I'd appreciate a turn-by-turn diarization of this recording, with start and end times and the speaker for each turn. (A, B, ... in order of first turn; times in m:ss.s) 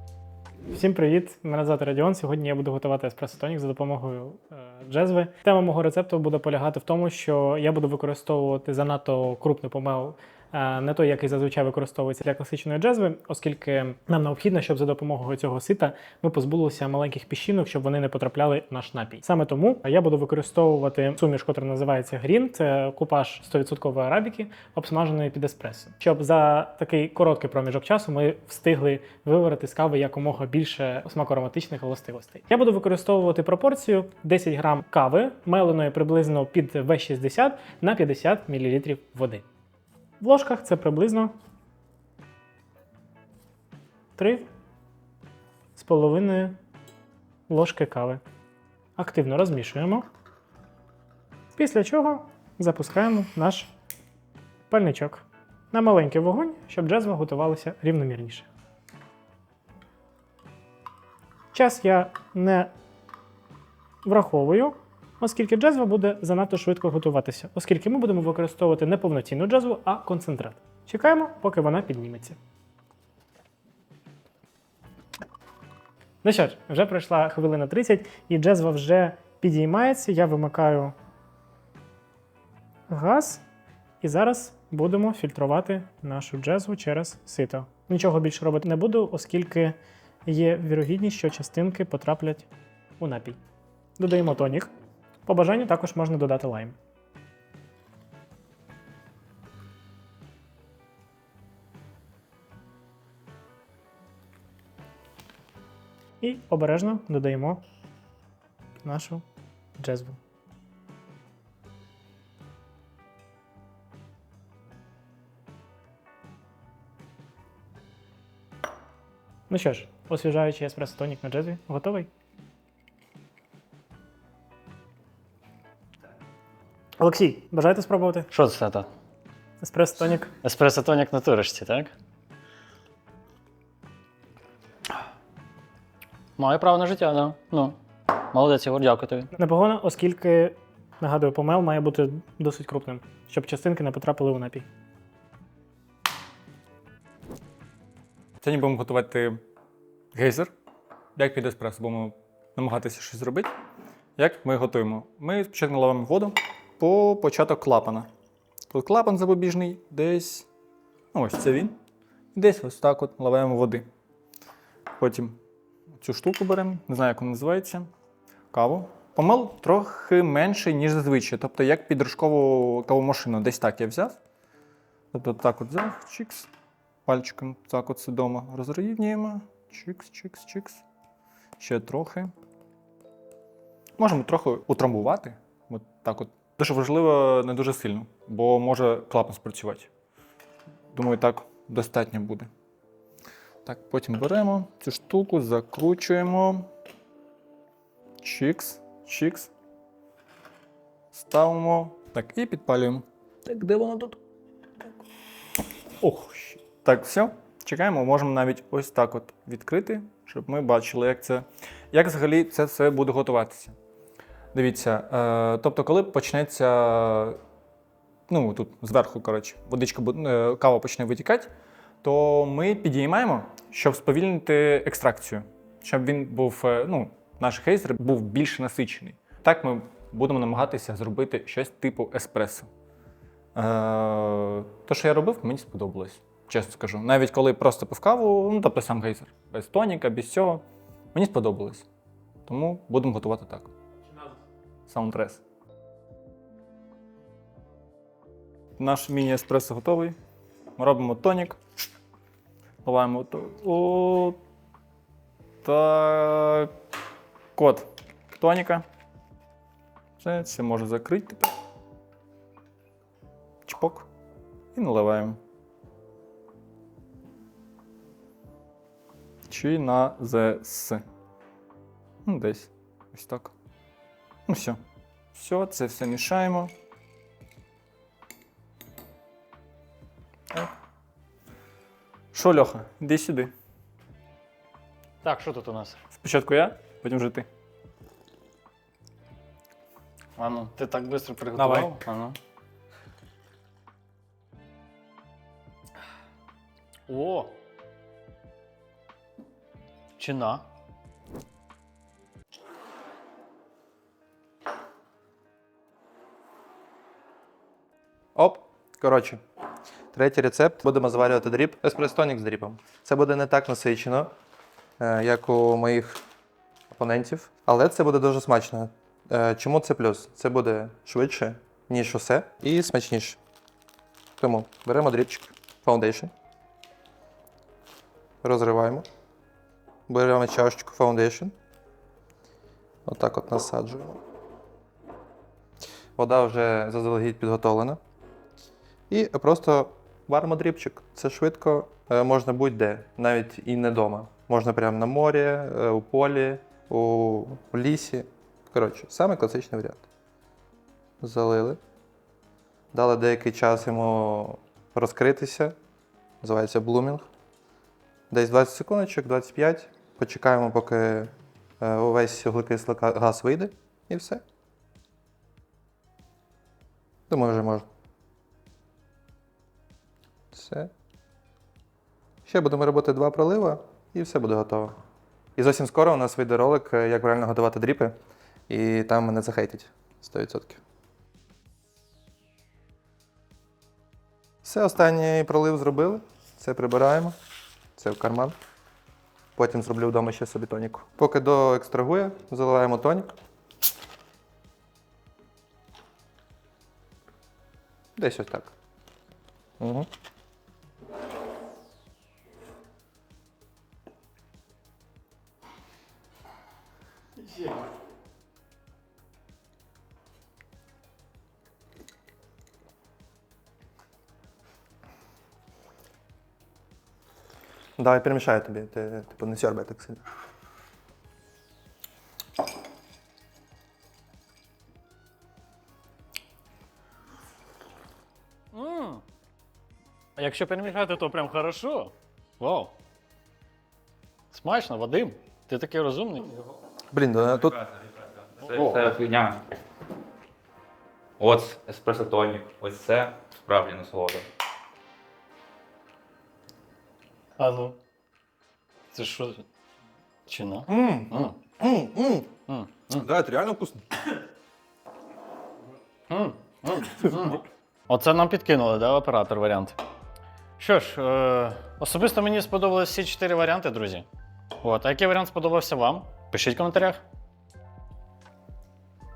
0:00.7-0:39.4 A
0:40.2-0:41.3 A
0:44.2-0:44.5 A
0:45.8-0:46.6 A
0:47.5-0:48.2 A
0:49.0-0:50.1 A
0:51.6-0:53.7 A
0:54.7-0:58.5 A
1:01.5-1:02.7 A
1:04.0-1:12.4 A
1:16.2-1:20.9 A
1:22.9-1:23.4 A
1:24.0-1:32.5 A
1:33.0-1:33.4 A
1:34.0-1:34.7 A
1:35.3-1:36.8 A
1:46.2-1:47.6 A
1:48.8-1:49.2 A
1:49.8-1:50.2 A
1:59.5-2:02.1 A
2:07.0-2:08.3 A
2:08.3-2:08.9 B
2:09.6-2:10.3 A
2:10.4-2:11.9 B
2:16.4-2:17.8 B
2:18.3-2:19.3 B
2:19.4-2:24.7 A
2:28.4-2:29.4 C
2:30.1-2:30.5 C
2:31.2-2:33.5 C
2:34.2-2:38.1 C
2:38.7-2:40.5 C
2:41.1-2:41.8 C
2:42.3-2:43.8 C
2:45.0-2:45.4 C
2:46.0-2:47.9 C
2:48.5-2:54.2 C
2:55.1-2:56.5 C
2:57.1-3:00.8 C
3:01.6-3:02.3 C
3:04.0-3:09.9 C
3:10.9-3:12.5 C
3:13.6-3:16.7 C
3:18.2-3:19.5 C
3:21.1-3:24.2 C
3:26.0-3:33.8 C
3:34.5-3:37.4 C
3:38.3-3:41.5 C
3:42.0-3:52.7 C
3:53.6-4:01.9 C
4:02.5-4:03.7 C
4:04.9-4:05.4 C
4:08.8-4:10.2 C
4:10.8-4:11.6 C
4:12.8-4:14.4 C
4:15.6-4:16.7 C
4:17.6-4:18.8 C
4:20.2-4:21.5 C
4:23.7-4:24.1 C
4:24.8-4:25.4 C
4:29.5-4:31.0 C
4:32.2-4:33.5 C
4:34.5-4:34.8 C
4:35.3-4:36.7 C
4:42.3-4:43.5 C
4:45.2-4:46.0 B
4:46.1-4:47.5 C
4:50.4-4:52.4 B
4:51.6-4:51.9 C
4:57.1-4:57.6 B
5:00.2-5:00.6 B
5:08.4-5:09.4 D
5:10.1-5:14.3 D
5:15.0-5:16.2 D
5:16.9-5:23.4 D
5:24.4-5:26.3 D
5:28.4-5:29.1 D
5:30.1-5:31.5 D
5:33.1-5:34.2 D
5:36.2-5:38.0 D
5:39.1-5:50.1 D
5:51.2-5:51.8 D
5:52.9-5:55.8 D
5:56.4-5:57.3 D
5:58.3-6:04.4 D
6:07.3-6:07.8 D
6:10.5-6:10.9 D
6:12.5-6:15.0 D
6:15.6-6:18.2 D
6:18.7-6:20.8 D
6:24.6-6:27.4 D
6:28.0-6:28.6 D
6:29.6-6:33.3 D
6:38.2-6:38.7 D
6:39.8-6:40.1 D
6:58.0-7:00.2 D
7:08.7-7:09.2 B
7:10.4-7:12.9 B
7:14.5-7:16.7 B
7:17.1-7:17.8 D
7:17.6-7:19.6 E
7:18.7-7:19.0 B
7:21.4-7:24.5 E
7:27.6-7:28.0 B
7:29.1-7:29.6 B
7:30.5-7:33.3 B
7:30.9-7:31.3 D
7:31.8-7:32.3 D
7:33.2-7:34.0 D
7:36.3-7:40.0 B
7:40.8-7:44.3 B
7:44.8-7:47.2 B